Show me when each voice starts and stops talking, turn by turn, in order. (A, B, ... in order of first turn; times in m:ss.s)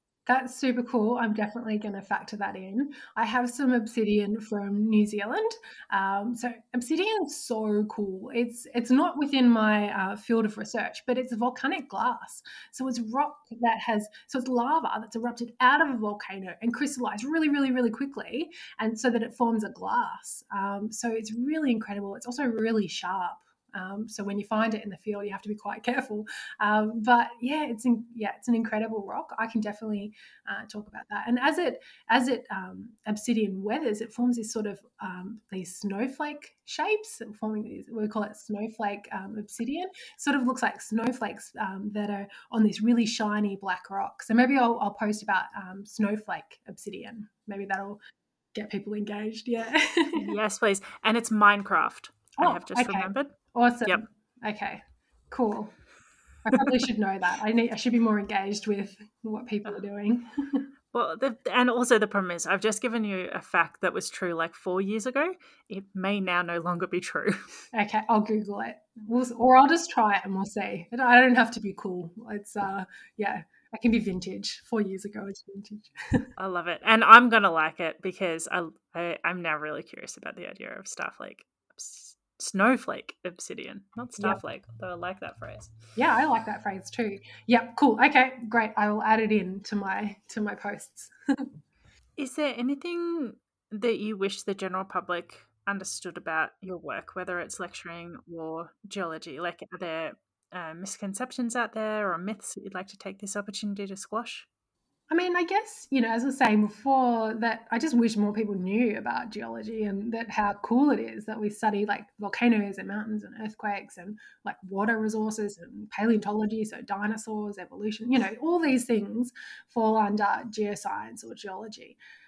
0:00.3-0:48.0 A
0:48.5-0:50.3 A
0:50.2-0:53.4 B
0:52.4-0:55.7 A
0:56.4-1:00.7 A
0:56.5-0:56.8 B
1:00.9-1:07.4 B
1:07.7-1:16.3 A
1:16.4-1:25.7 B
1:26.0-1:31.5 A
1:32.2-1:44.5 B
1:45.1-2:02.0 A